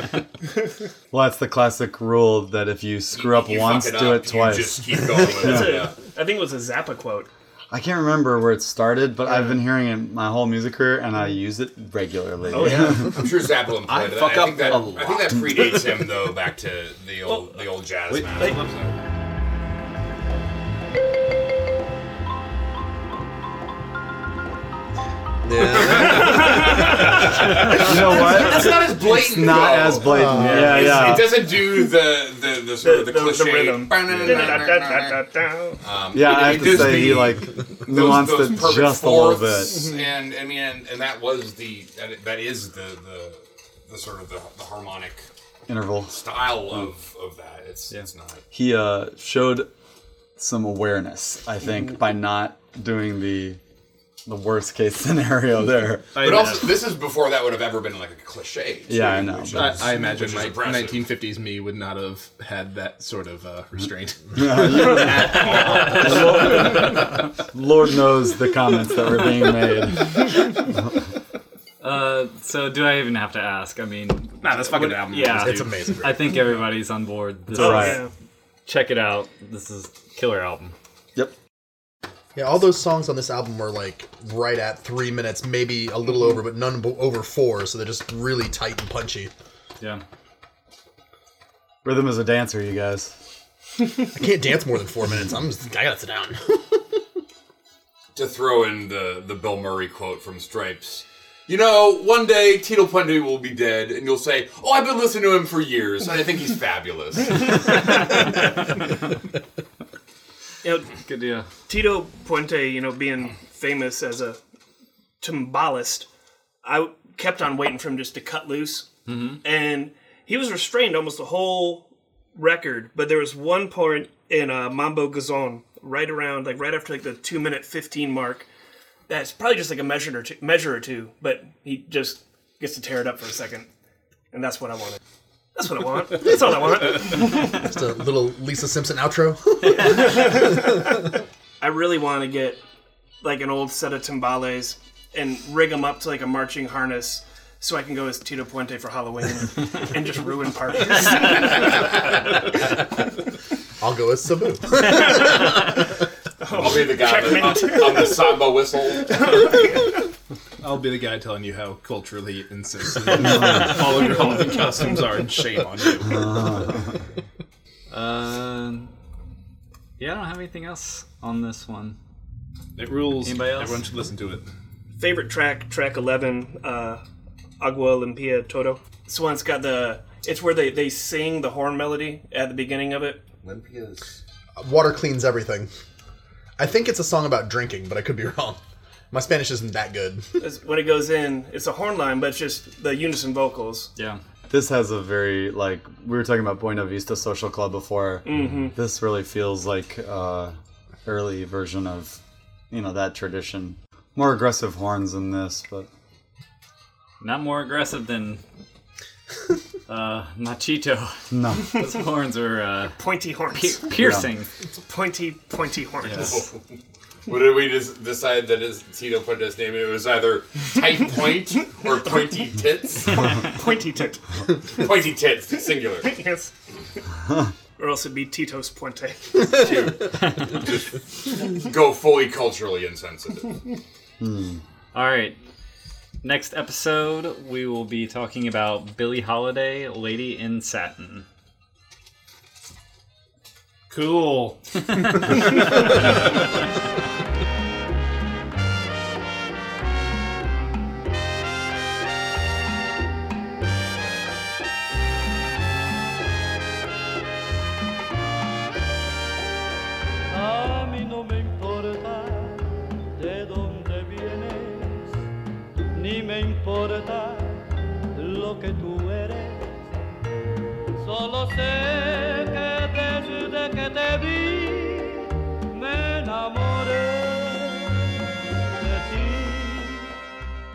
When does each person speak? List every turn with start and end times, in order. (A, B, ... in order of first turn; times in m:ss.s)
0:01.1-0:05.9 A
0:03.1-0:06.0 B
0:05.1-0:07.3 C
0:07.7-0:13.2 A
0:12.5-0:13.2 C
0:12.9-0:19.0 B
0:13.8-0:15.8 D
0:17.3-0:17.6 C
0:18.1-0:18.8 D
0:25.4-0:26.8 E
0:26.0-0:35.2 B
0:26.1-0:27.2 C
0:27.6-0:31.5 A
0:30.0-0:31.0 E
0:32.8-0:35.8 C
0:35.8-0:45.2 B
0:36.1-0:39.9 A
0:45.7-0:46.2 A
0:46.1-0:48.4 B
0:48.5-0:49.7 A
0:50.4-0:53.6 A
0:54.3-0:56.4 A
0:56.1-0:56.8 D
0:56.2-1:01.1 B
0:58.9-0:59.8 A
0:59.5-1:06.8 D
1:04.4-1:10.3 A
1:05.4-1:07.0 F
1:11.8-1:18.1 F
1:14.4-1:16.3 D
1:15.2-1:16.3 E
1:17.5-1:18.0 A
1:17.6-1:18.1 C
1:18.7-1:20.8 F
1:22.4-1:29.3 E
1:31.8-1:33.1 A
1:34.1-1:37.0 E
1:38.2-1:48.4 B
1:50.6-1:50.9 C
1:51.0-1:51.5 F
1:51.7-1:54.4 C
1:55.2-1:56.1 C
1:56.6-1:58.9 C
1:59.1-1:59.4 F
1:59.4-2:08.5 C
2:09.1-2:13.7 C
2:14.3-2:15.0 C
2:15.6-2:17.7 C
2:17.4-2:20.3 E
2:19.6-2:21.0 C
2:21.6-2:22.6 C
2:23.2-2:31.7 C
2:33.8-2:35.6 E
2:34.9-2:35.7 C
2:36.4-2:40.0 C
2:36.5-2:39.3 B
2:40.6-2:46.8 D
2:47.9-2:48.9 F
2:50.0-2:52.0 F
2:52.8-2:54.5 D
2:53.2-2:53.8 F
2:55.0-2:57.0 C
2:57.6-3:03.2 C
3:03.4-3:04.2 B
3:04.6-3:05.7 E
3:06.6-3:08.6 E
3:09.1-3:10.5 E
3:10.4-3:13.9 C
3:14.0-3:14.2 F
3:14.5-3:22.2 A
3:18.2-3:18.8 C
3:22.7-3:25.9 A
3:27.2-3:28.4 F
3:29.9-3:33.0 F
3:31.3-3:31.7 A
3:32.9-3:34.0 C
3:33.5-3:34.5 F
3:33.9-3:34.2 A
3:34.8-3:36.4 C
3:36.0-3:36.6 B
3:37.3-3:43.4 B
3:43.0-3:44.4 C
3:44.7-3:46.2 B
3:45.5-3:46.5 C
3:47.8-3:49.9 C
3:49.5-3:53.6 B
3:54.2-3:54.6 A
3:54.9-3:55.4 F
3:56.2-4:01.3 F
4:03.9-4:06.3 D
4:20.4-4:25.1 G
4:26.0-4:29.7 G
4:31.1-4:38.2 G
4:38.9-4:40.1 G